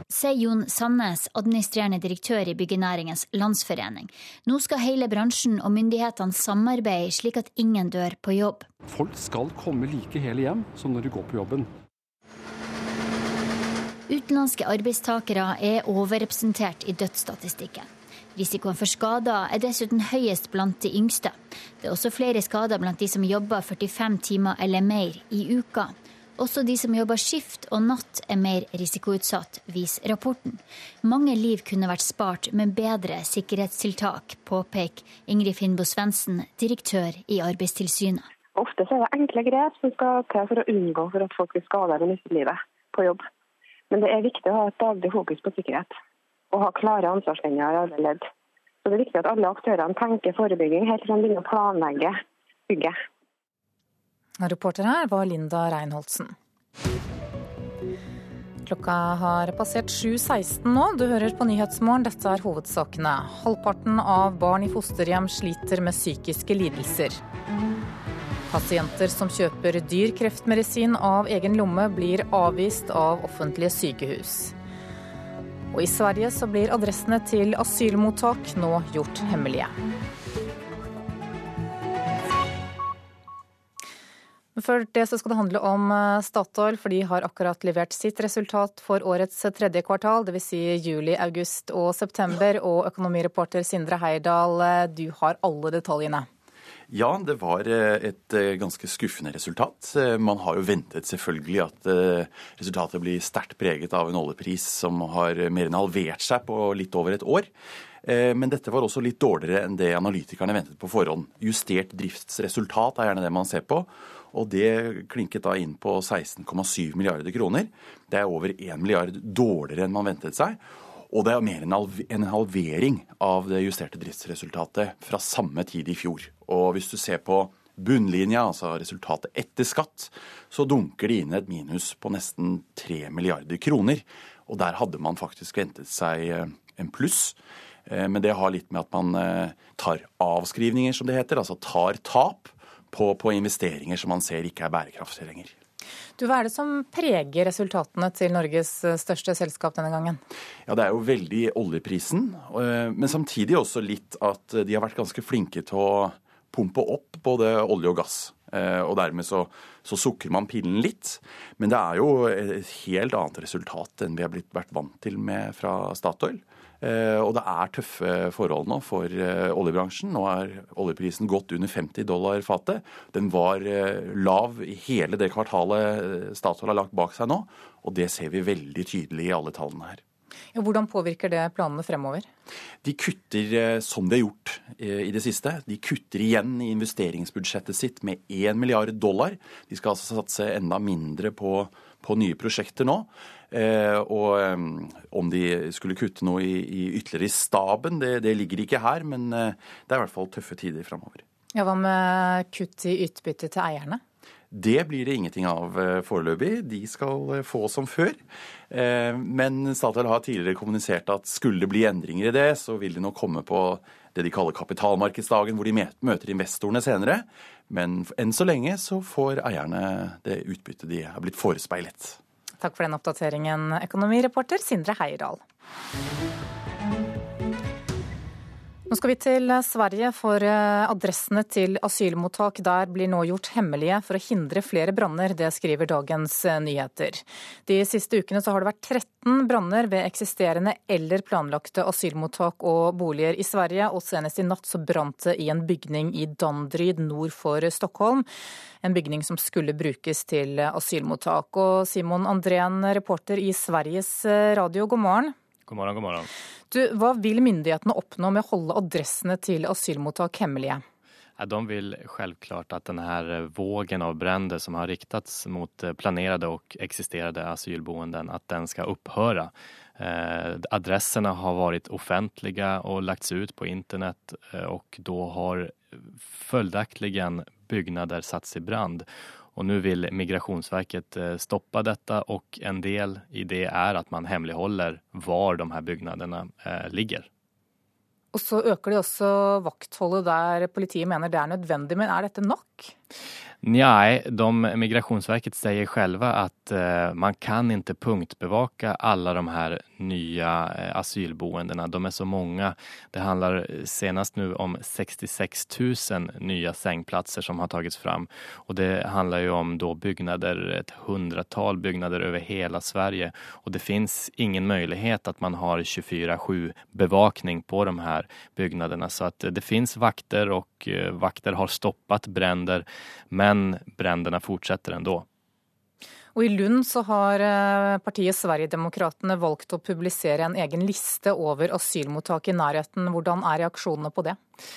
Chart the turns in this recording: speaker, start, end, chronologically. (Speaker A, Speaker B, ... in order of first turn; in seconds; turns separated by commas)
Speaker A: 0.1-8.7, Speaker B: 8.9-11.7, Speaker A: 14.1-38.3, Speaker C: 38.6-43.2, Speaker C: 43.9-45.9, Speaker C: 46.5-48.3, Speaker C: 48.9-52.2, Speaker C: 52.7-53.0, Speaker D: 54.4-56.4, Speaker D: 58.6-67.2, Speaker D: 68.5-74.5, Speaker D: 75.7-79.8, Speaker D: 84.6-96.3, Speaker E: 96.9-107.5, Speaker E: 108.0-145.6, Speaker D: 146.2-150.2, Speaker E: 150.7-180.0, Speaker D: 180.6-182.3, Speaker E: 182.8-201.2, Speaker D: 201.6-204.0, Speaker E: 204.5-222.2, Speaker D: 222.6-225.4, Speaker D: 228.9-248.3, Speaker D: 248.8-255.3, Speaker F: 255.7-256.3, Speaker D: 256.7-260.8, Speaker F: 261.4-287.3, Speaker D: 288.3-292.9, Speaker F: 293.6-325.2, Speaker D: 326.4-334.4